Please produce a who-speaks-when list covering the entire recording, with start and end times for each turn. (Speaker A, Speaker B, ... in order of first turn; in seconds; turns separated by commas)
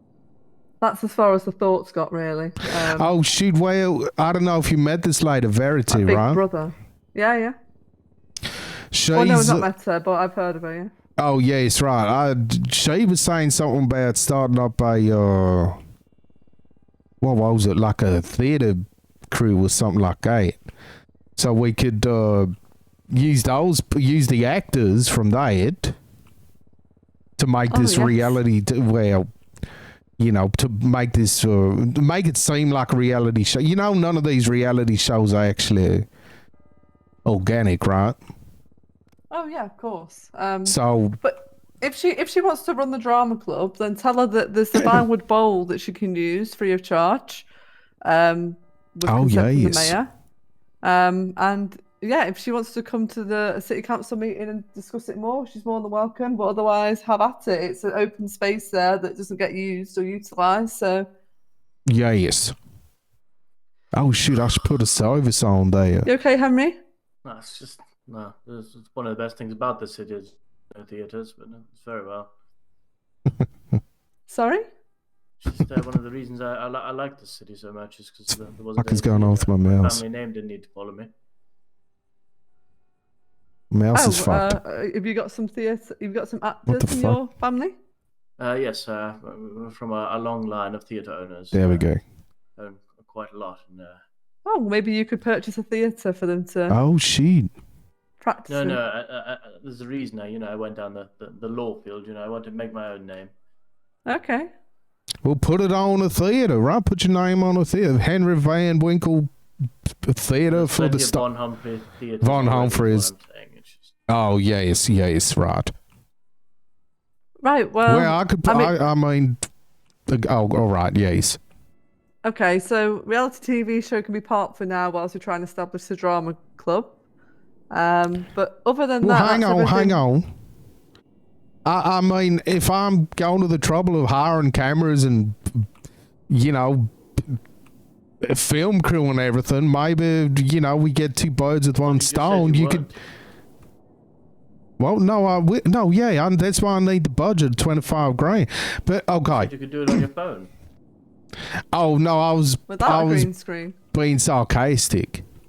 Speaker A: 0.8-3.1, Speaker B: 2.9-6.4, Speaker A: 5.9-7.5, Speaker B: 8.9-9.7, Speaker A: 9.1-10.9, Speaker B: 11.2-15.8, Speaker B: 17.2-20.6, Speaker B: 21.4-22.5, Speaker B: 23.1-25.9, Speaker B: 27.4-29.3, Speaker A: 27.7-28.4, Speaker B: 30.2-36.1, Speaker B: 37.3-38.2, Speaker A: 39.3-47.5, Speaker B: 40.6-41.2, Speaker A: 48.0-50.1, Speaker B: 49.0-50.0, Speaker A: 50.8-61.1, Speaker B: 61.9-62.5, Speaker B: 63.9-66.1, Speaker A: 66.1-66.8, Speaker C: 67.2-72.3, Speaker A: 74.3-74.7, Speaker C: 75.4-81.1, Speaker B: 78.8-80.0, Speaker B: 83.7-84.6, Speaker A: 83.9-87.8, Speaker B: 86.7-87.2, Speaker C: 88.4-91.9, Speaker B: 91.5-92.0, Speaker C: 92.6-94.0, Speaker A: 94.5-96.8, Speaker B: 96.7-97.5, Speaker A: 98.2-98.8, Speaker C: 98.5-103.3, Speaker A: 104.1-104.5, Speaker B: 105.2-109.3, Speaker B: 110.0-111.2, Speaker C: 110.5-113.9, Speaker B: 112.2-113.1, Speaker B: 114.1-115.7, Speaker A: 117.4-118.7, Speaker B: 117.9-119.4, Speaker B: 120.1-121.4, Speaker A: 122.2-126.9, Speaker A: 127.7-130.0, Speaker B: 129.0-130.3, Speaker B: 131.7-135.7, Speaker B: 136.3-137.4, Speaker B: 138.2-142.9, Speaker C: 141.8-143.0, Speaker B: 144.8-149.5, Speaker C: 149.3-150.5, Speaker B: 151.7-153.3, Speaker A: 152.7-153.8, Speaker B: 153.9-155.2